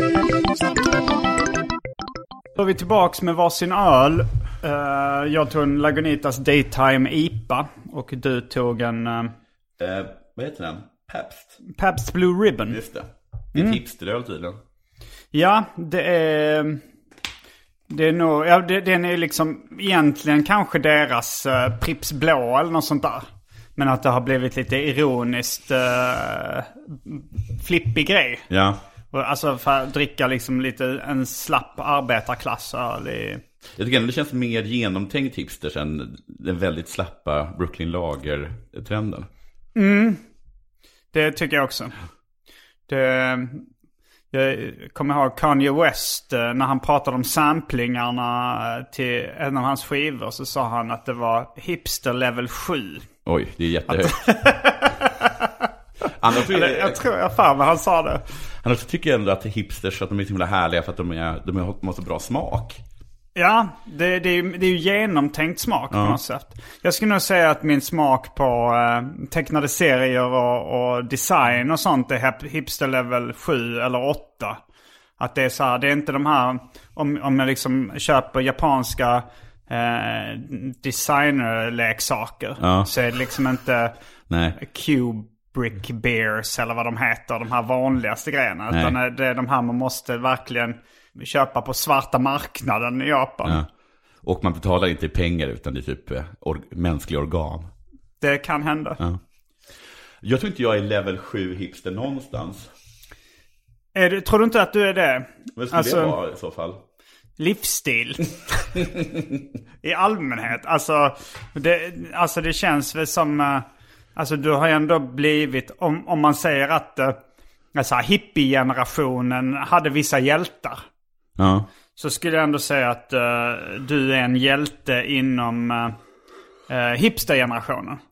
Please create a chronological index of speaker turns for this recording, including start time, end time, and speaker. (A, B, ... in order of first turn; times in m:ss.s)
0:02.6-0:09.3 A
0:09.8-0:11.6 B
0:11.7-0:12.8 A
0:12.7-0:14.6 B
0:13.6-0:13.8 A
0:15.3-0:16.8 A
0:17.9-0:28.5 A
0:28.5-0:28.8 B
0:29.1-0:33.4 A
0:33.8-0:39.3 B
0:39.8-0:40.2 A
0:41.1-0:41.9 A
0:42.9-0:43.7 A
0:44.3-0:53.1 A
0:53.3-0:54.4 B
0:53.9-0:55.5 A
0:56.2-0:57.0 B
0:56.4-0:58.2 A
0:58.6-1:02.8 B
1:03.4-1:14.6 A
1:05.9-1:06.2 B
1:15.2-1:23.9 A
1:22.6-1:22.9 B
1:24.3-1:24.6 B
1:24.6-1:33.6 A
1:28.7-1:29.0 B
1:34.2-1:37.7 B
1:38.2-1:39.0 A
1:40.2-1:42.7 B
1:44.0-1:46.2 A
1:45.6-1:46.8 B
1:47.4-1:48.7 A
1:49.0-1:49.4 B
1:49.8-1:57.2 A
1:57.8-2:00.8 A
2:01.4-2:01.7 B
2:02.0-2:06.0 A
2:06.7-2:08.0 A